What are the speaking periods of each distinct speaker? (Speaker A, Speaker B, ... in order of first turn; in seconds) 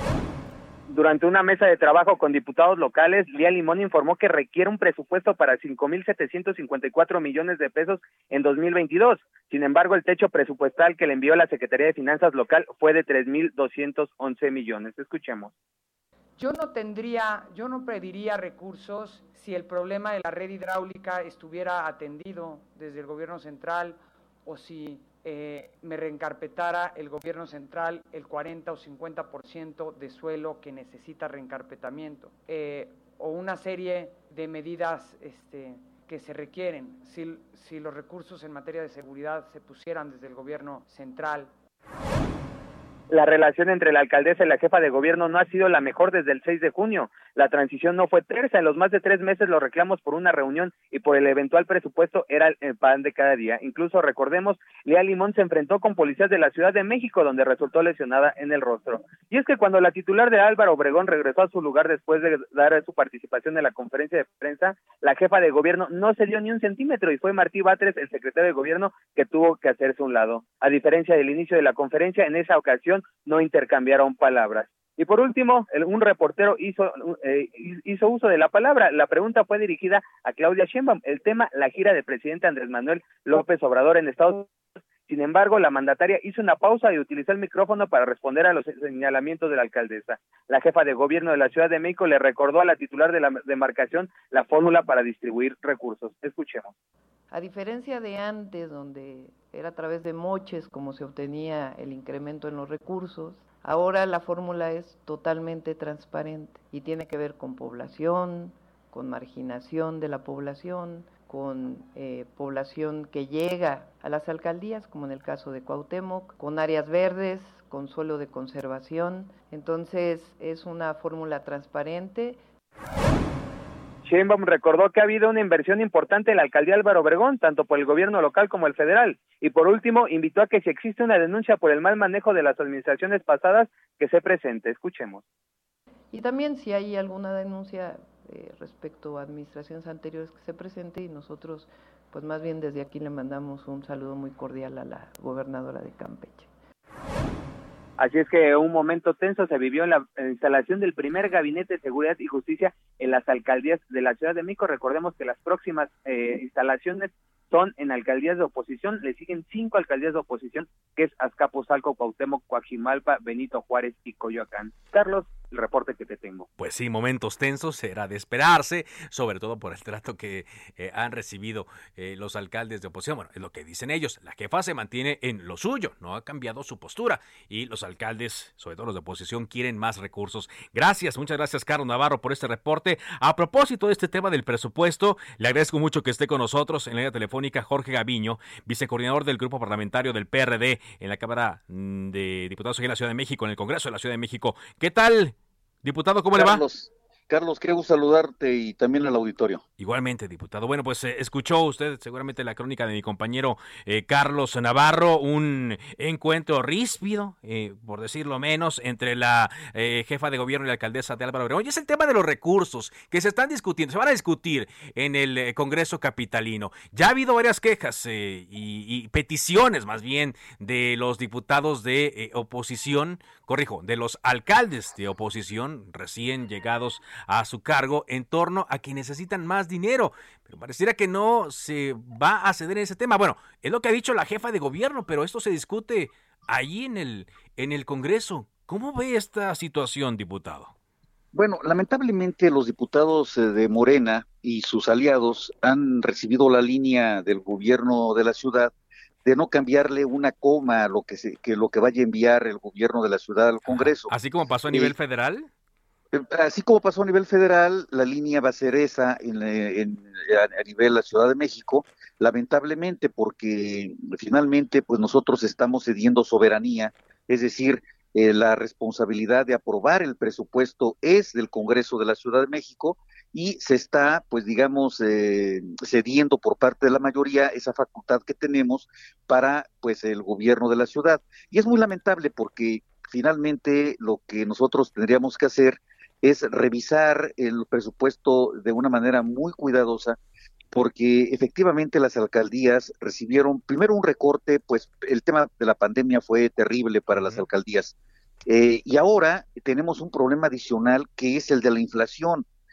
Speaker A: 0.9-15.5, 43.1-84.5, 85.1-96.7, 124.0-135.2, 148.0-166.5
Speaker B: 16.4-41.5
Speaker C: 97.3-122.4, 136.1-146.5
Speaker D: 166.6-196.6, 199.8-240.7, 253.7-255.5, 297.1-297.5
Speaker E: 196.3-199.6, 241.3-248.7, 249.2-254.1, 256.1-290.2, 290.7-297.9, 298.5-302.5